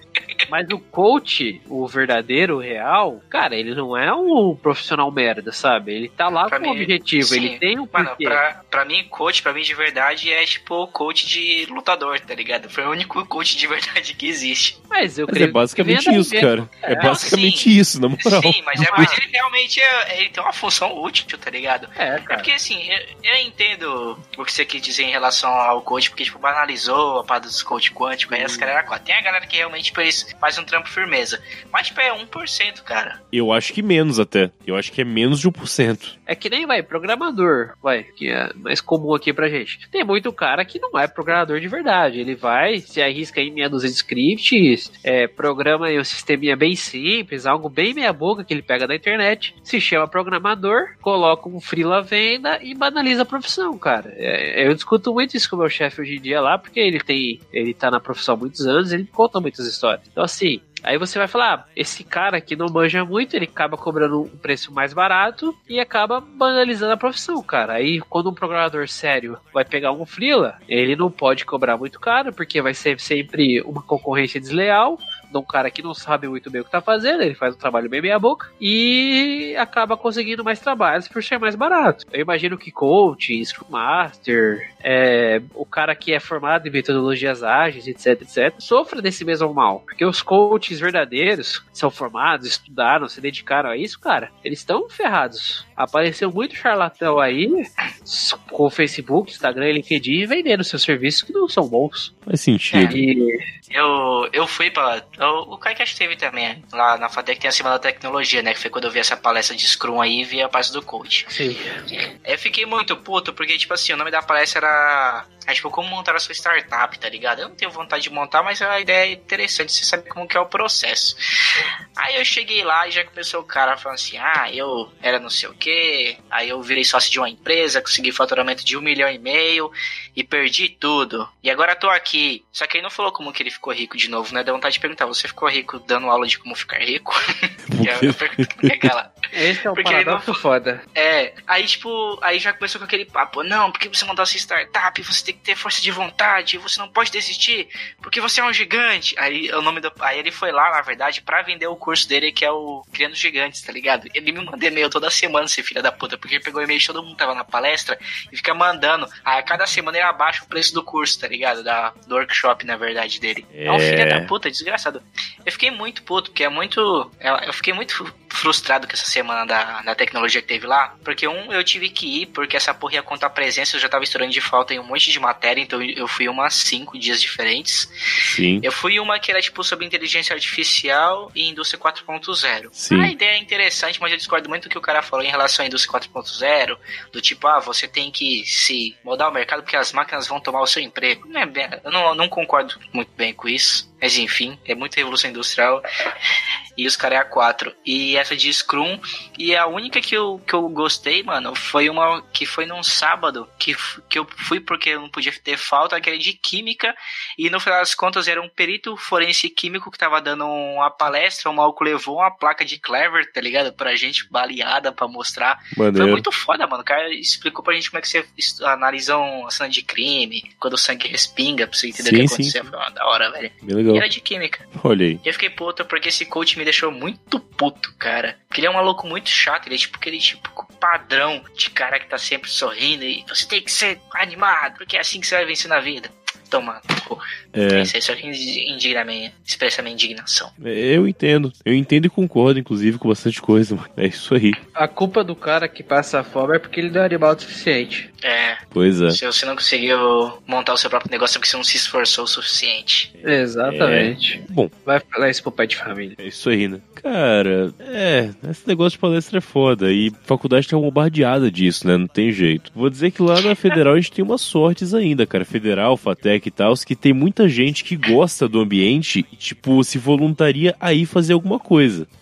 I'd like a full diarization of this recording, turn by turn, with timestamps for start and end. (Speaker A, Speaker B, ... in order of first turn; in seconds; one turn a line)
Speaker A: 0.5-8.4
Speaker B: 6.5-14.8
Speaker A: 14.9-17.1
Speaker C: 15.3-19.1
Speaker B: 17.0-17.7
Speaker B: 18.2-33.2
Speaker A: 18.8-19.2
Speaker A: 22.0-22.5
Speaker A: 28.3-28.7
Speaker C: 33.3-36.1
Speaker A: 36.3-102.1
Speaker C: 102.3-103.0
Speaker B: 102.7-103.0
Speaker A: 102.9-103.4
Speaker B: 103.7-111.3
Speaker A: 111.3-111.6
Speaker B: 112.2-139.1
Speaker C: 137.7-138.9
Speaker A: 139.3-140.8
Speaker B: 139.7-140.4
Speaker B: 140.9-177.9
Speaker C: 163.5-164.3
Speaker C: 178.2-178.7
Speaker B: 178.6-195.8
Speaker C: 182.8-183.1
Speaker B: 196.8-224.6
Speaker C: 215.7-216.2
Speaker C: 221.9-222.6
Speaker C: 223.6-224.1
Speaker C: 224.7-225.2
Speaker B: 225.2-240.5
Speaker C: 237.5-237.9
Speaker C: 240.6-244.6
Speaker A: 244.7-248.1
Speaker B: 248.2-253.1
Speaker C: 248.7-249.2
Speaker A: 253.2-256.1
Speaker C: 253.6-254.7
Speaker C: 256.2-272.1